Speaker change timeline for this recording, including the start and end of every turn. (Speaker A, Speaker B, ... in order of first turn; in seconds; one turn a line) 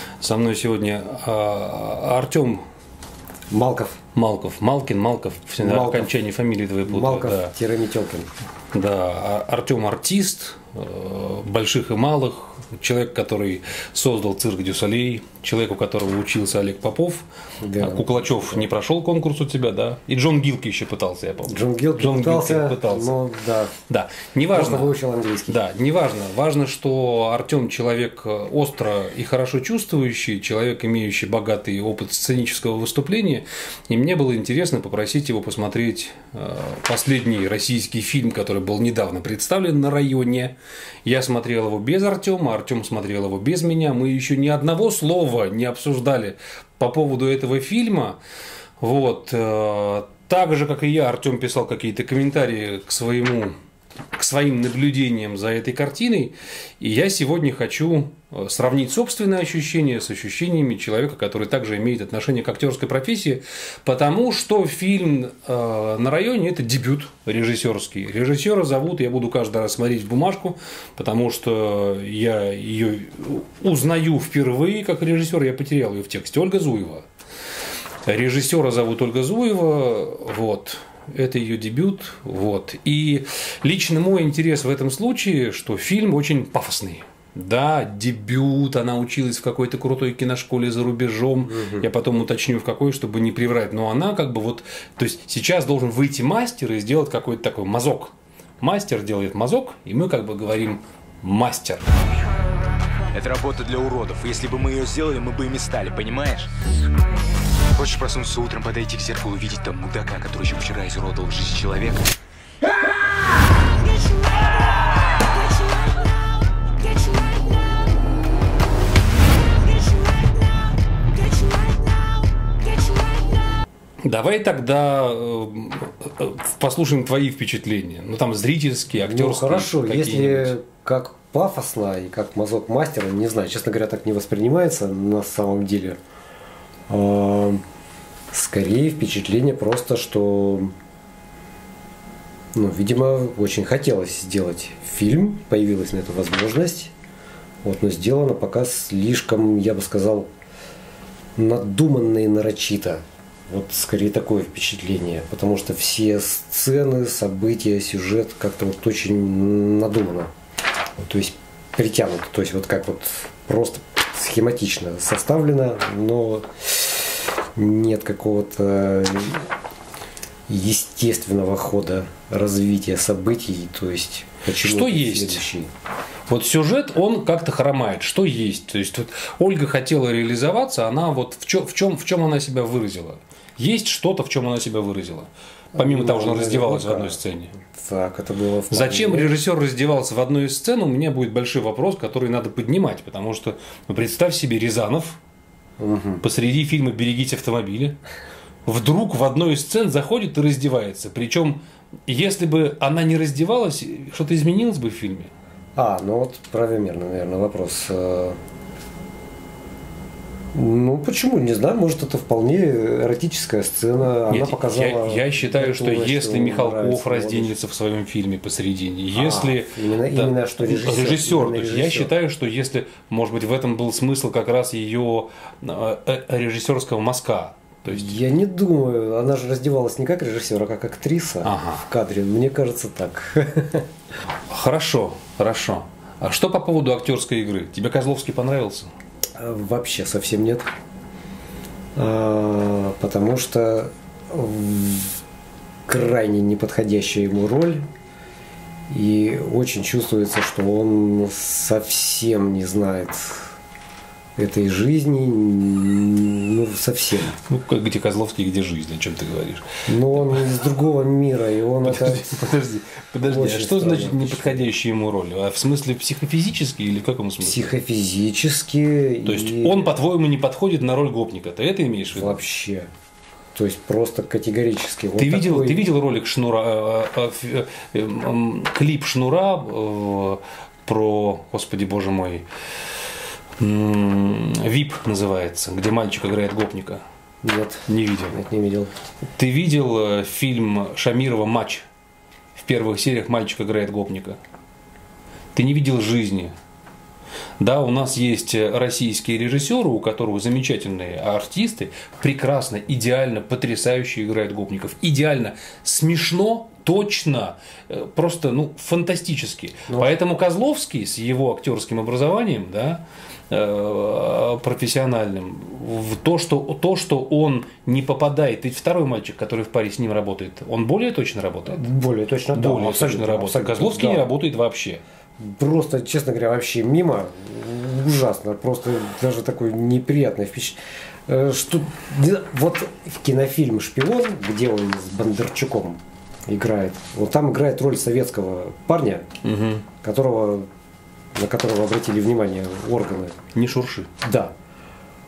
Speaker A: 0.2-2.6
Speaker B: 3.5-4.0
Speaker A: 4.1-7.5
Speaker B: 5.6-6.1
Speaker B: 6.8-8.3
Speaker A: 8.7-17.3
Speaker B: 17.6-18.7
Speaker A: 17.8-23.2
Speaker B: 21.5-23.7
Speaker A: 23.9-24.9
Speaker B: 24.5-25.6
Speaker A: 25.5-48.2
Speaker A: 48.8-53.5
Speaker A: 54.2-77.0
Speaker A: 78.1-101.9
Speaker B: 91.5-91.9
Speaker C: 103.1-106.5
Speaker C: 107.8-112.1
Speaker C: 113.7-116.1
Speaker C: 116.7-118.0
Speaker C: 119.5-123.5
Speaker A: 124.0-130.6
Speaker B: 128.9-136.0
Speaker B: 136.9-137.6
Speaker B: 138.3-140.7
Speaker B: 142.5-146.9
Speaker B: 147.6-150.3
Speaker B: 151.3-160.3
Speaker B: 161.0-169.5
Speaker B: 170.5-175.7
Speaker A: 174.6-175.4
Speaker A: 176.3-187.5
Speaker B: 185.8-189.3
Speaker A: 188.7-195.2
Speaker B: 195.8-196.2
Speaker A: 196.2-198.0
Speaker A: 198.7-205.3
Speaker B: 205.8-208.4
Speaker B: 210.5-217.6
Speaker A: 214.3-228.2
Speaker B: 219.1-222.1
Speaker B: 227.9-233.9
Speaker A: 231.4-231.9
Speaker A: 234.5-238.9
Speaker B: 239.4-240.7
Speaker B: 242.0-245.1
Speaker B: 245.9-247.8
Speaker B: 248.9-253.5
Speaker B: 254.3-257.4
Speaker A: 257.4-260.4
Speaker B: 259.9-262.6
Speaker A: 261.8-267.7
Speaker B: 263.2-264.6
Speaker B: 267.4-269.9
Speaker A: 269.2-272.4
Speaker B: 272.1-272.9
Speaker B: 273.5-275.9
Speaker A: 275.2-282.4
Speaker A: 283.6-287.0
Speaker B: 287.4-288.9
Speaker A: 287.9-288.4
Speaker A: 289.4-291.8
Speaker A: 292.5-294.4
Speaker A: 295.5-296.5
Speaker A: 297.6-321.8
Speaker B: 321.7-324.3
Speaker A: 322.5-325.0
Speaker B: 325.4-339.3
Speaker A: 339.4-339.9
Speaker B: 340.0-340.7
Speaker B: 341.3-343.4
Speaker A: 343.5-344.1
Speaker B: 344.2-344.5